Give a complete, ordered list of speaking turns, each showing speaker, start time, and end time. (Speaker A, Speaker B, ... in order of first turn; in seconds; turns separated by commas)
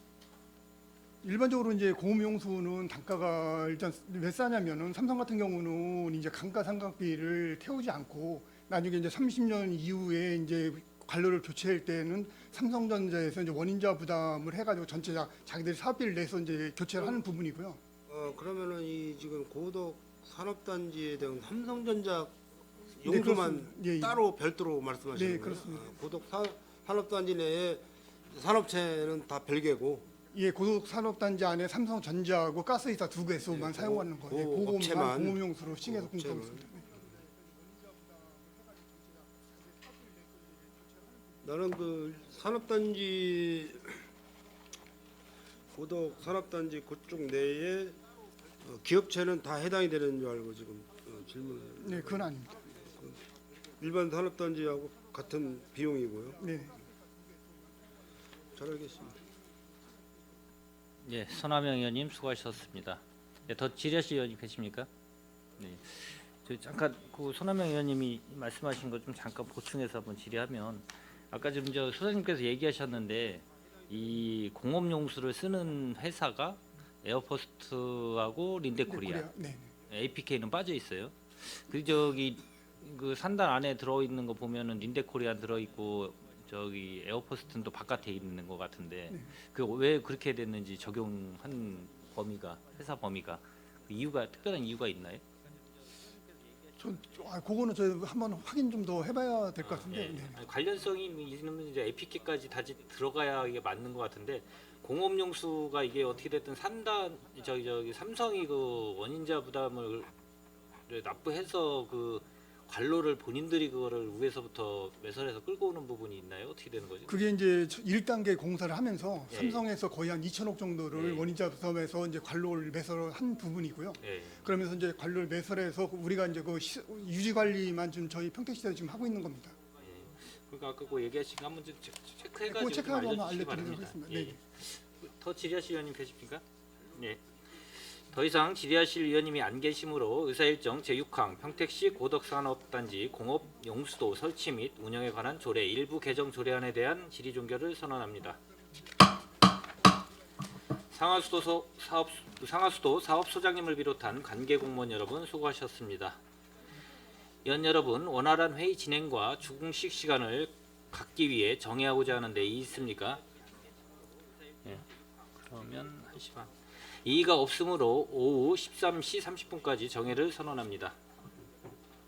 Speaker A: 1.2-17.8, Speaker B: 18.1-22.3, Speaker B: 23.0-30.1, Speaker A: 23.0-24.2, Speaker A: 25.1-25.9, Speaker A: 30.3-36.9, Speaker B: 33.5-36.7, Speaker B: 41.4-44.0, Speaker B: 45.7-48.0, Speaker B: 48.6-52.1, Speaker A: 51.8-52.7, Speaker B: 52.8-53.2, Speaker B: 53.8-56.4, Speaker A: 56.4-56.8, Speaker B: 58.5-59.1, Speaker C: 61.0-64.9, Speaker C: 65.6-79.3, Speaker A: 78.9-79.7, Speaker C: 79.9-95.2, Speaker A: 96.8-100.4, Speaker C: 99.6-110.1, Speaker C: 110.9-117.2, Speaker A: 117.1-129.5, Speaker C: 119.3-119.6, Speaker C: 120.9-121.3, Speaker C: 124.0-124.5, Speaker C: 129.8-136.4, Speaker A: 132.4-134.4, Speaker C: 136.9-148.4, Speaker C: 150.9-156.2, Speaker C: 157.4-163.2, Speaker C: 165.4-170.9